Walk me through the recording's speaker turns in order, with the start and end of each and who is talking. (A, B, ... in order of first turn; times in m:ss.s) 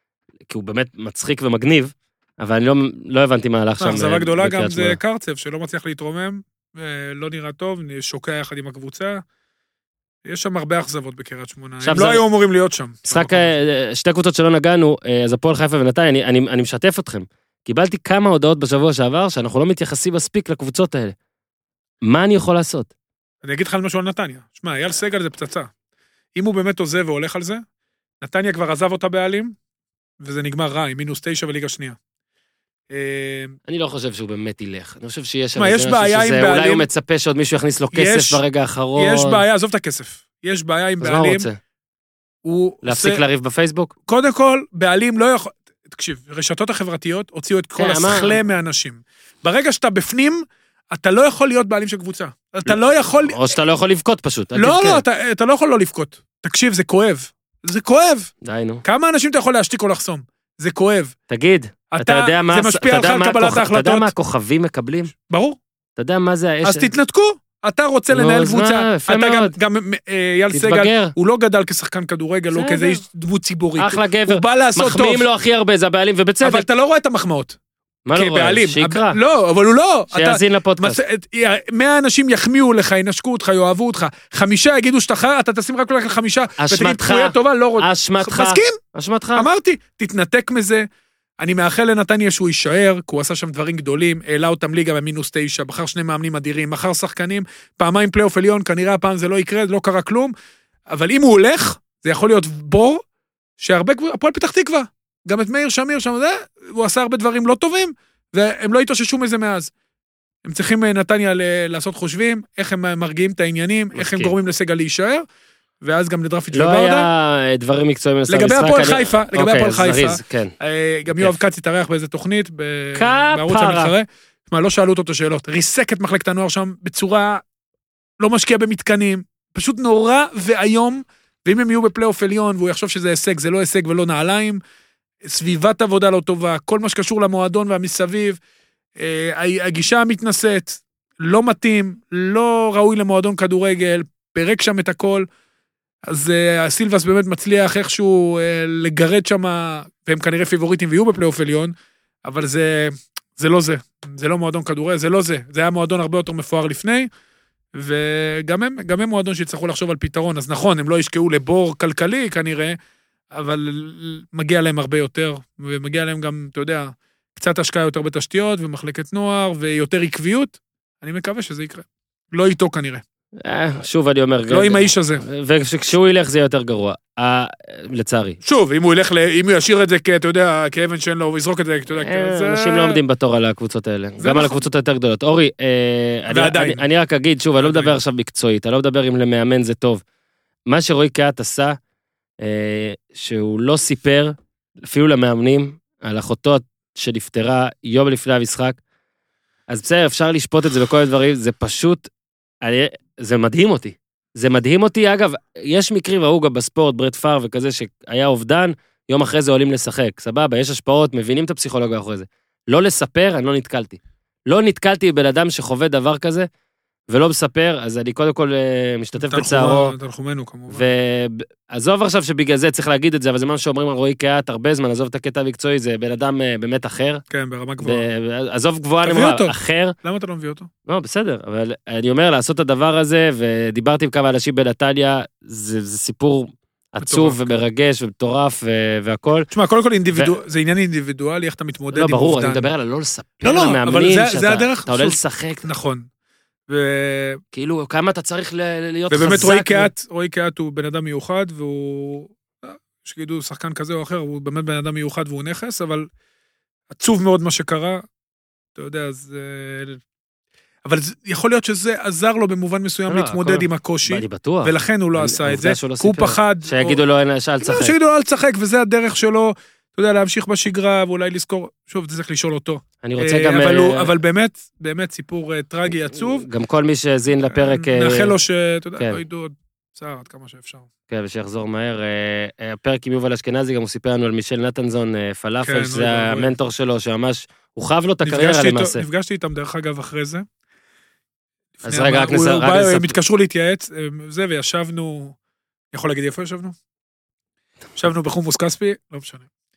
0:00.5-0:05.0 A
0:03.8-0:09.2 B
0:10.2-0:13.5 B
0:11.8-0:12.2 A
0:13.1-0:21.2 A
0:22.0-0:22.9 A
0:23.4-0:25.7 B
0:26.4-0:27.6 B
0:28.2-0:29.6 B
0:30.2-0:32.0 B
0:32.9-0:33.6 B
0:33.7-0:39.4 A
0:35.6-0:36.9 B
0:37.9-0:38.4 B
0:39.0-0:41.5 B
0:41.0-0:41.6 A
0:42.4-0:43.2 B
0:42.8-0:43.9 A
0:44.1-0:53.6 B
0:47.8-0:48.4 A
0:52.7-0:55.0 A
0:54.6-0:58.3 B
0:58.4-0:58.8 A
0:58.8-1:01.1 B
1:01.3-1:05.1 A
1:01.9-1:04.1 B
1:05.3-1:05.6 B
1:06.0-1:06.9 A
1:06.6-1:15.3 B
1:08.1-1:09.6 A
1:10.5-1:11.1 A
1:12.5-1:13.0 A
1:13.8-1:16.7 A
1:16.4-1:17.6 B
1:18.1-1:19.2 A
1:18.1-1:28.8 B
1:20.1-1:21.0 A
1:26.6-1:29.5 A
1:29.4-1:30.8 B
1:31.4-1:40.3 B
1:40.9-1:43.0 B
1:43.6-1:49.7 B
1:50.4-1:55.2 B
1:54.0-1:54.3 A
1:55.8-1:57.1 B
1:56.5-2:00.5 A
1:58.3-2:07.4 B
2:03.0-2:03.9 A
2:08.2-2:14.6 B
2:15.2-2:18.4 B
2:19.0-2:25.3 B
2:26.1-2:31.7 B
2:32.2-2:37.1 B
2:37.8-2:42.8 B
2:43.3-2:53.0 B
2:53.4-2:58.4 A
2:54.5-2:55.2 B
2:58.4-3:03.0 B
3:02.0-3:10.0 A
3:04.2-3:04.6 B
3:06.3-3:06.8 B
3:07.6-3:08.0 B
3:10.7-3:11.8 A
3:12.4-3:18.8 A
3:19.7-3:22.1 A
3:22.6-3:36.5 A
3:37.1-3:40.0 A
3:39.2-3:40.9 B
3:40.7-3:47.2 A
3:47.3-3:48.0 B
3:47.8-3:49.9 A
3:49.0-3:50.7 B
3:50.9-3:59.5 A
3:57.0-3:57.5 B
3:59.5-4:02.7 B
4:01.9-4:05.7 A
4:03.4-4:06.1 B
4:06.7-4:07.4 B
4:07.5-4:09.9 A
4:09.1-4:16.1 B
4:16.9-4:18.0 B
4:18.8-4:20.0 B
4:20.8-4:27.0 B
4:23.1-4:28.0 A
4:27.6-4:36.5 B
4:33.0-4:34.1 A
4:36.1-4:38.4 A
4:37.5-4:40.9 B
4:41.1-4:49.0 A
4:45.6-4:46.5 B
4:48.2-4:50.4 B
4:51.8-4:55.4 B
4:51.8-4:53.2 A
4:55.9-4:56.8 B
4:58.0-4:59.5 B